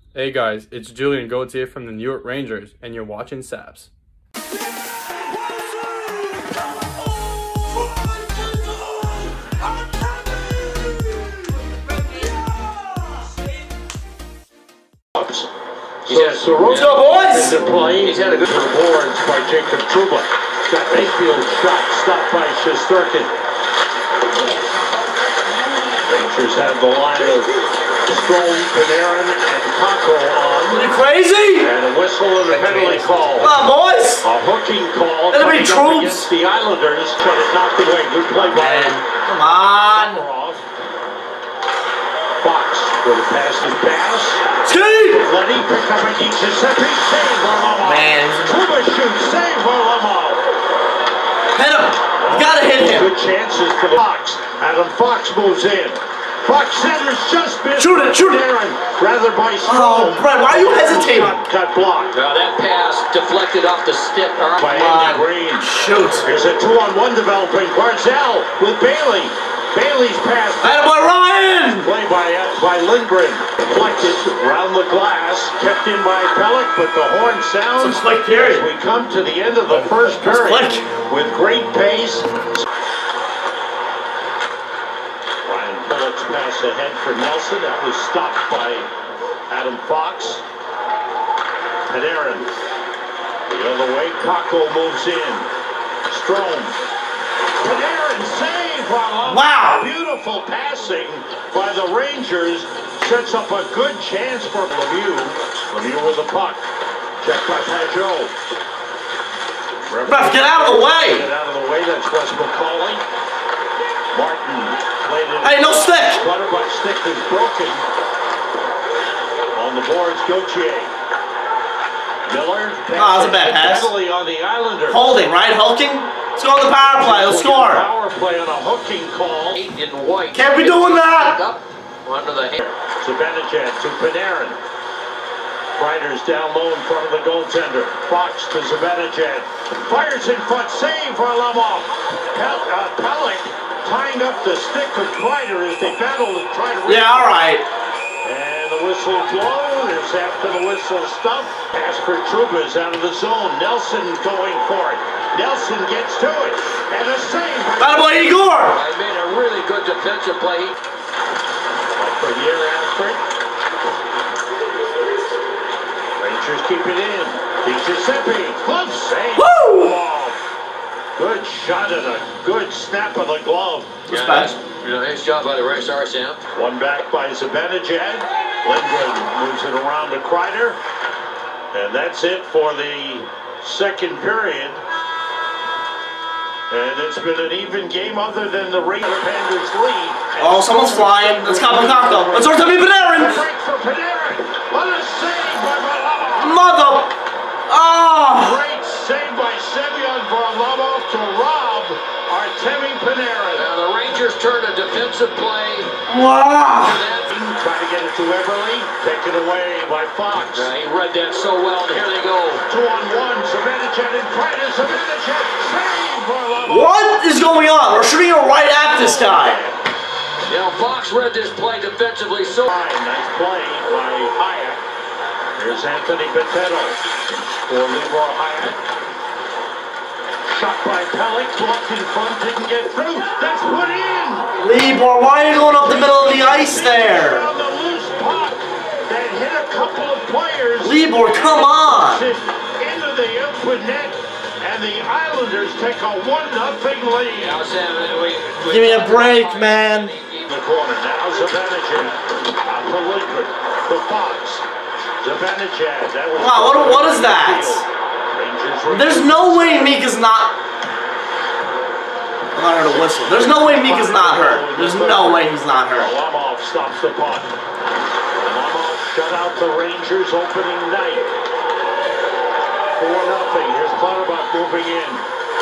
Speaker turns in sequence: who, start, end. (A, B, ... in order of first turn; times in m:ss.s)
0:00.1-0:03.9 A
0:15.2-0:15.5 B
0:16.0-0:23.3 B
0:16.1-0:17.0 C
0:16.7-0:17.6 D
0:18.0-0:18.6 C
0:26.0-0:27.5 B
0:28.1-0:30.8 B
0:30.7-0:31.7 D
0:31.6-0:33.6 B
0:32.5-0:33.0 C
0:33.1-0:34.2 D
0:34.2-0:39.0 B
0:35.3-0:36.3 D
0:38.5-0:40.2 D
0:39.9-0:40.6 B
0:42.4-0:44.4 B
0:44.6-0:45.3 D
0:45.2-0:50.4 B
0:47.7-0:48.6 D
0:51.6-0:53.1 D
0:52.2-1:02.2 B
0:57.8-0:58.4 D
0:59.6-1:01.4 D
1:02.1-1:05.1 C
1:04.6-1:05.7 B
1:04.7-1:06.3 D
1:06.2-1:10.8 B
1:10.6-1:11.9 D
1:11.8-1:22.6 B
1:17.8-1:18.7 D
1:20.2-1:20.9 D
1:25.4-1:28.9 B
1:29.5-1:30.4 B
1:31.9-1:32.5 B
1:33.5-1:35.5 B
1:36.1-1:36.8 B
1:37.6-1:46.6 B
1:39.2-1:39.9 D
1:47.2-1:48.3 B
1:49.8-1:53.0 B
1:50.1-1:51.3 D
1:54.1-1:57.8 B
1:55.4-1:56.2 D
1:59.5-2:00.9 B
2:02.3-2:05.0 B
2:03.0-2:03.9 D
2:04.9-2:07.9 D
2:06.9-2:09.6 B
2:09.5-2:12.6 C
2:10.3-2:11.4 D
2:12.6-2:14.6 B
2:15.8-2:27.5 B
2:26.8-2:27.7 D
2:28.2-2:38.4 B
2:37.8-2:38.8 D
2:38.7-2:40.8 C
2:42.0-2:43.2 B
2:46.2-2:50.4 B
2:49.4-2:50.0 D
2:51.2-2:54.0 B
2:54.1-2:54.5 D
2:54.1-2:56.4 C
2:56.5-3:00.8 B
3:01.7-3:04.8 B
3:06.7-3:16.6 B
3:10.4-3:13.4 D
3:16.4-3:17.1 D
3:17.7-3:18.6 D
3:18.2-3:23.7 B
3:23.5-3:25.9 C
3:26.1-3:27.0 D
3:26.8-3:27.3 C
3:27.3-3:30.7 B
3:30.5-3:32.6 C
3:32.7-3:37.0 B
3:36.7-3:39.6 D
3:38.9-3:39.9 B
3:40.5-3:42.7 C
3:42.7-3:44.8 B
3:45.6-3:48.8 B
3:50.5-3:54.5 B
3:54.6-3:57.5 D
3:55.8-4:07.6 B
4:00.8-4:02.3 D
4:07.4-4:10.5 C
4:08.6-4:10.2 D
4:10.5-4:14.6 B
4:15.2-4:20.1 B
4:16.4-4:17.8 D
4:18.9-4:20.6 D
4:22.5-4:26.1 D
4:23.2-4:27.5 B
4:28.4-4:31.3 B
4:33.0-4:35.2 B